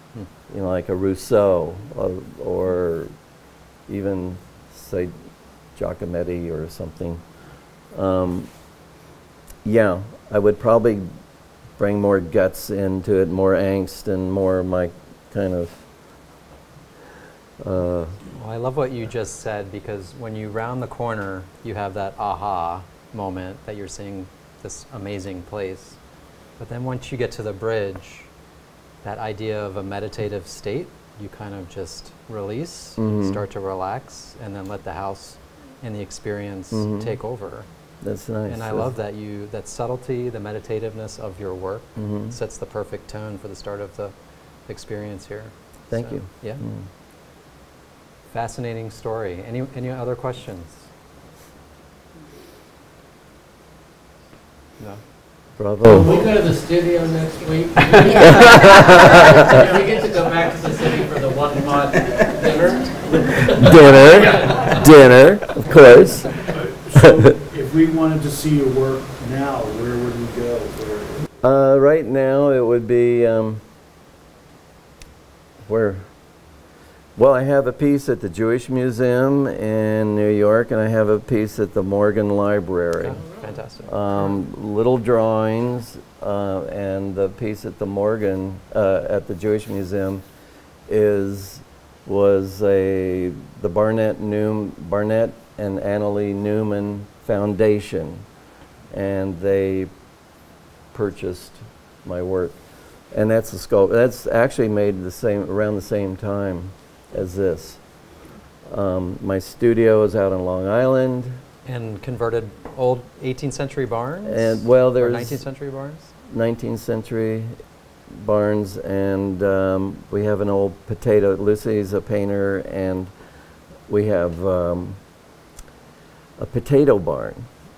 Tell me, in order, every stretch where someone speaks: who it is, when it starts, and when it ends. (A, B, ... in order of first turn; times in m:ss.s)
0:00.5-0:03.1 A
0:03.9-0:05.1 A
0:05.7-0:07.2 A
0:07.9-0:08.5 A
0:09.6-0:11.1 A
0:11.8-0:15.9 A
0:17.6-0:18.2 A
0:18.3-0:26.0 B
0:26.6-0:28.3 B
0:29.0-0:37.7 B
0:33.0-0:33.4 A
0:36.7-0:37.2 A
0:38.0-0:38.9 A
0:38.5-0:44.1 B
0:42.0-0:42.4 A
0:44.7-0:46.6 B
0:45.9-0:46.9 A
0:48.3-0:50.9 B
0:55.6-0:56.3 A
0:55.9-1:04.7 C
0:58.1-0:59.6 A
1:03.4-1:06.4 A
1:06.5-1:11.2 D
1:06.9-1:07.3 A
1:11.4-1:13.6 A
1:15.6-1:16.1 A
1:17.2-1:23.2 A
1:23.0-1:23.9 B
1:23.8-1:30.2 A
1:30.9-1:38.2 A
1:38.9-1:39.9 A
1:40.9-1:47.8 A
1:48.6-1:51.4 A
1:51.7-1:56.1 B
1:54.2-1:55.4 A
1:56.2-1:57.6 A
1:58.1-2:03.1 A
2:03.9-2:05.0 A
2:06.4-2:07.4 A